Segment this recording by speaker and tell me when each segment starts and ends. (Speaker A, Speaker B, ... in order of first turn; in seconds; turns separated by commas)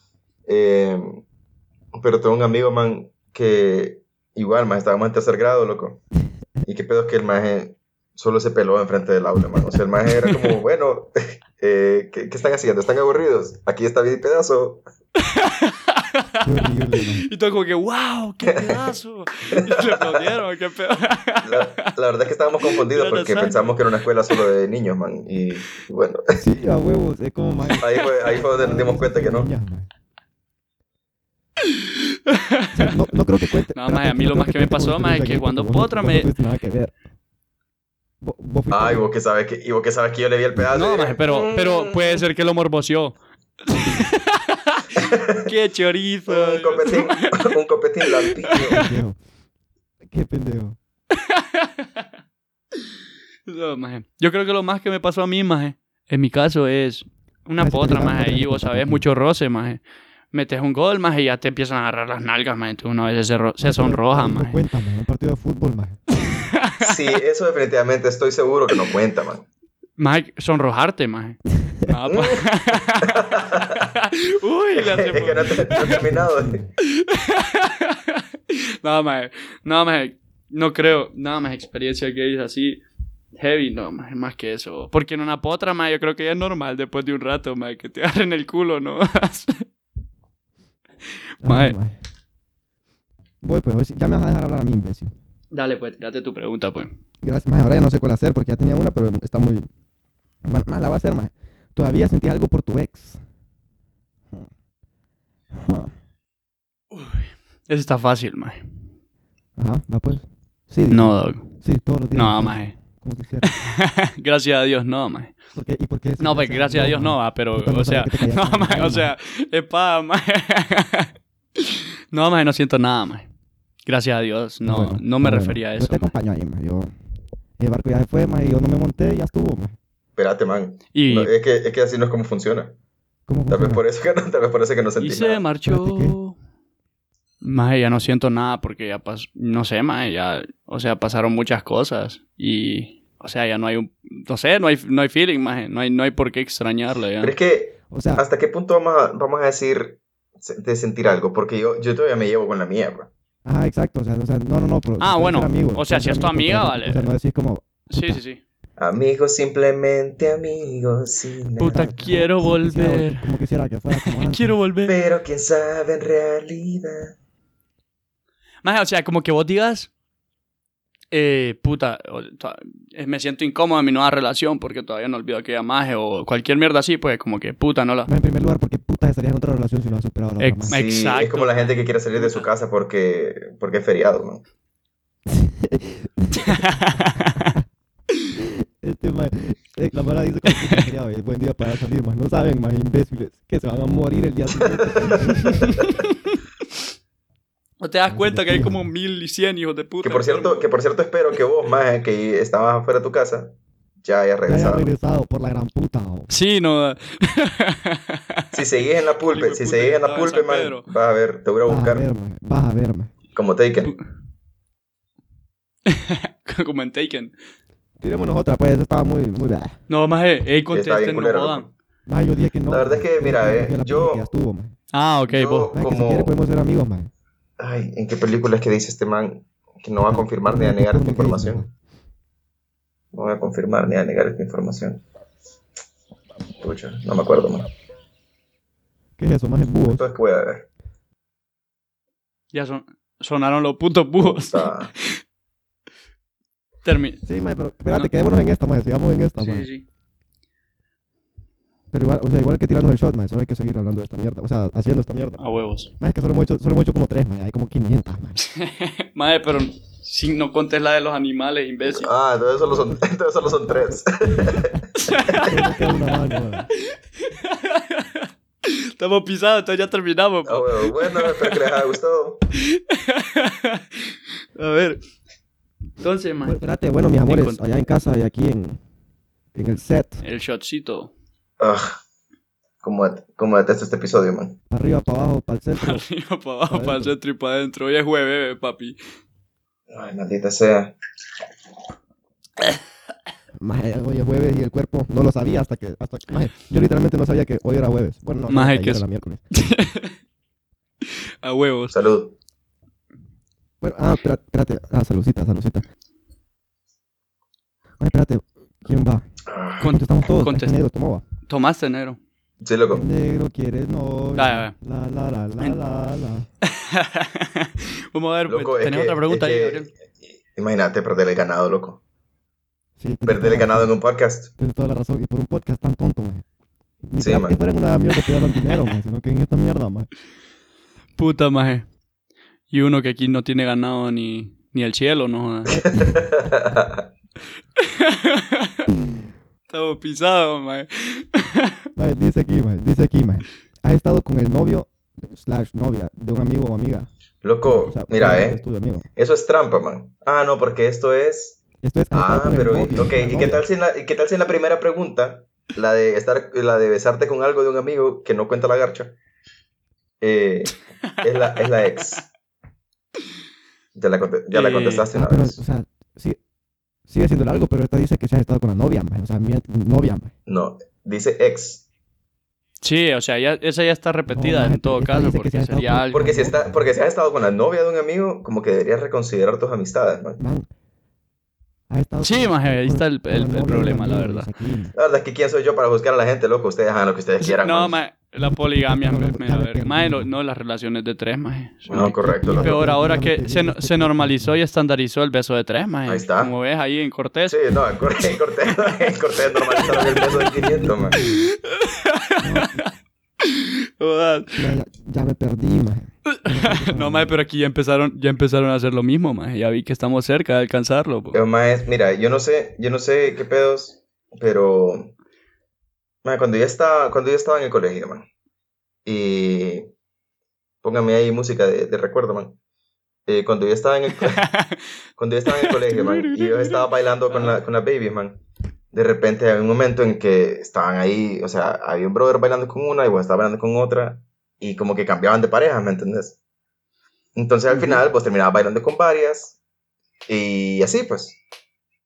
Speaker A: 0.5-1.2, Speaker A: 1.9-6.0, Speaker A: 6.6-14.8, Speaker B: 15.3-16.2, Speaker C: 16.4-17.3, Speaker B: 17.2-21.9, Speaker A: 18.5-18.8, Speaker A: 19.5-20.3, Speaker A: 21.4-26.2, Speaker B: 22.6-23.7, Speaker C: 26.4-29.9, Speaker A: 27.8-29.5, Speaker B: 31.7-33.0, Speaker C: 32.7-37.0, Speaker B: 33.7-36.3, Speaker C: 38.2-39.1, Speaker A: 38.7-42.2, Speaker B: 40.7-47.5, Speaker A: 45.0-45.5, Speaker A: 46.3-48.9, Speaker B: 48.1-48.9, Speaker C: 48.6-49.2, Speaker C: 50.1-50.8, Speaker B: 51.1-52.0, Speaker B: 53.5-59.8, Speaker C: 57.6-59.0, Speaker B: 60.3-64.6, Speaker C: 63.6-66.0, Speaker B: 66.3-67.0, Speaker A: 66.8-69.4, Speaker B: 70.0-76.0, Speaker A: 72.1-72.5, Speaker A: 73.0-73.8, Speaker A: 74.7-76.6, Speaker C: 75.8-76.7, Speaker B: 76.8-82.8, Speaker B: 83.4-89.7, Speaker B: 91.4-91.8, Speaker C: 91.4-92.0, Speaker C: 93.4-95.1, Speaker B: 95.5-96.9, Speaker C: 97.2-99.7, Speaker C: 100.5-103.2, Speaker C: 105.6-105.9, Speaker B: 106.9-108.6, Speaker C: 109.6-113.5, Speaker B: 110.9-111.5, Speaker B: 112.1-112.8, Speaker B: 113.4-115.3, Speaker C: 115.5-119.1, Speaker B: 116.2-123.3, Speaker B: 123.9-126.1, Speaker C: 124.7-126.9, Speaker C: 127.6-129.8, Speaker A: 130.2-132.8, Speaker B: 130.9-131.3, Speaker C: 133.3-133.8, Speaker A: 133.5-135.4, Speaker B: 135.0-136.4, Speaker C: 135.7-136.2, Speaker B: 137.4-147.3, Speaker A: 147.2-153.1, Speaker C: 147.9-148.2, Speaker C: 153.4-158.2, Speaker B: 155.0-157.1, Speaker B: 157.9-158.4, Speaker A: 158.8-162.1, Speaker B: 161.6-163.3, Speaker C: 161.7-164.5, Speaker B: 163.9-165.0, Speaker A: 164.9-167.2, Speaker B: 168.6-169.9, Speaker B: 171.1-178.1, Speaker C: 178.1-180.8, Speaker B: 180.4-182.5, Speaker A: 180.7-184.4, Speaker C: 185.3-186.8, Speaker B: 186.4-187.5, Speaker C: 188.3-195.9, Speaker B: 195.4-196.4, Speaker B: 197.8-200.7, Speaker C: 198.1-198.9, Speaker A: 200.0-204.9, Speaker C: 204.5-206.3, Speaker B: 206.3-208.6, Speaker A: 208.5-212.1, Speaker B: 209.2-210.9, Speaker C: 211.7-213.1, Speaker A: 213.3-213.9, Speaker B: 215.9-217.3, Speaker C: 218.0-219.7, Speaker B: 219.9-221.7, Speaker A: 220.7-221.7, Speaker C: 222.1-224.8, Speaker A: 222.7-224.3, Speaker B: 224.9-225.7, Speaker A: 225.3-226.3, Speaker C: 225.7-227.1, Speaker A: 227.6-231.7, Speaker C: 230.0-231.7, Speaker A: 233.1-235.0, Speaker A: 236.6-237.7, Speaker C: 239.2-240.1, Speaker A: 239.9-240.7, Speaker B: 242.5-245.2, Speaker A: 244.2-244.9, Speaker B: 246.8-247.2, Speaker C: 247.2-249.7, Speaker B: 249.4-249.8, Speaker C: 251.9-255.4, Speaker B: 255.4-255.9, Speaker C: 256.0-258.4, Speaker B: 258.4-262.1, Speaker A: 261.9-264.8, Speaker C: 262.6-264.8, Speaker B: 265.0-265.6, Speaker C: 265.4-266.7, Speaker B: 266.8-271.6, Speaker A: 270.5-272.4, Speaker B: 272.6-275.0, Speaker B: 276.0-276.6, Speaker C: 276.4-278.8, Speaker B: 277.3-277.6, Speaker C: 279.6-280.2, Speaker B: 280.2-281.1, Speaker A: 281.6-282.0, Speaker A: 282.8-284.6, Speaker C: 284.7-286.0, Speaker B: 285.8-289.0, Speaker C: 286.7-287.1, Speaker A: 289.9-290.9, Speaker C: 293.6-299.4, Speaker B: 298.5-300.1, Speaker B: 301.0-301.9, Speaker A: 301.9-302.4, Speaker C: 303.8-305.8, Speaker C: 308.0-309.2, Speaker A: 309.5-309.9, Speaker B: 309.8-310.8, Speaker C: 309.9-311.2, Speaker B: 311.5-312.2, Speaker A: 312.6-313.1, Speaker C: 312.9-316.5, Speaker B: 314.4-314.8, Speaker B: 316.6-319.9, Speaker A: 318.5-319.9, Speaker A: 320.5-322.0, Speaker C: 323.0-323.9, Speaker A: 323.3-324.5, Speaker C: 324.6-326.4, Speaker C: 327.1-330.1, Speaker A: 327.2-327.6, Speaker B: 331.2-331.9, Speaker B: 332.7-335.8, Speaker C: 335.7-336.1, Speaker A: 335.8-337.1, Speaker B: 337.8-338.8, Speaker B: 339.7-341.8, Speaker C: 342.0-347.1, Speaker A: 347.4-348.6, Speaker C: 347.7-349.1, Speaker A: 349.2-351.6, Speaker C: 351.8-353.6, Speaker A: 352.1-359.1, Speaker A: 360.2-362.3, Speaker A: 363.9-365.6, Speaker B: 364.5-365.1, Speaker C: 365.1-366.4, Speaker C: 367.1-370.3, Speaker A: 370.5-371.8, Speaker B: 372.8-376.3, Speaker C: 374.3-376.8, Speaker A: 376.1-380.4, Speaker C: 380.4-380.7, Speaker C: 381.9-384.9, Speaker B: 382.2-384.5, Speaker A: 384.9-388.0, Speaker B: 387.4-397.6, Speaker C: 388.4-390.3, Speaker A: 391.9-392.9, Speaker C: 392.2-394.6, Speaker A: 396.1-396.5, Speaker A: 397.5-401.2, Speaker B: 399.8-400.1, Speaker C: 399.9-401.4, Speaker B: 401.1-402.9, Speaker C: 402.4-402.8, Speaker B: 403.4-404.7, Speaker C: 404.6-407.4, Speaker B: 406.3-411.4, Speaker A: 411.3-415.1, Speaker A: 416.2-418.2, Speaker A: 419.1-419.9, Speaker A: 420.8-422.6, Speaker A: 423.3-424.4, Speaker B: 424.1-424.9, Speaker A: 425.2-428.4, Speaker B: 425.5-427.6, Speaker A: 428.9-436.4, Speaker A: 437.4-439.6, Speaker A: 440.3-441.4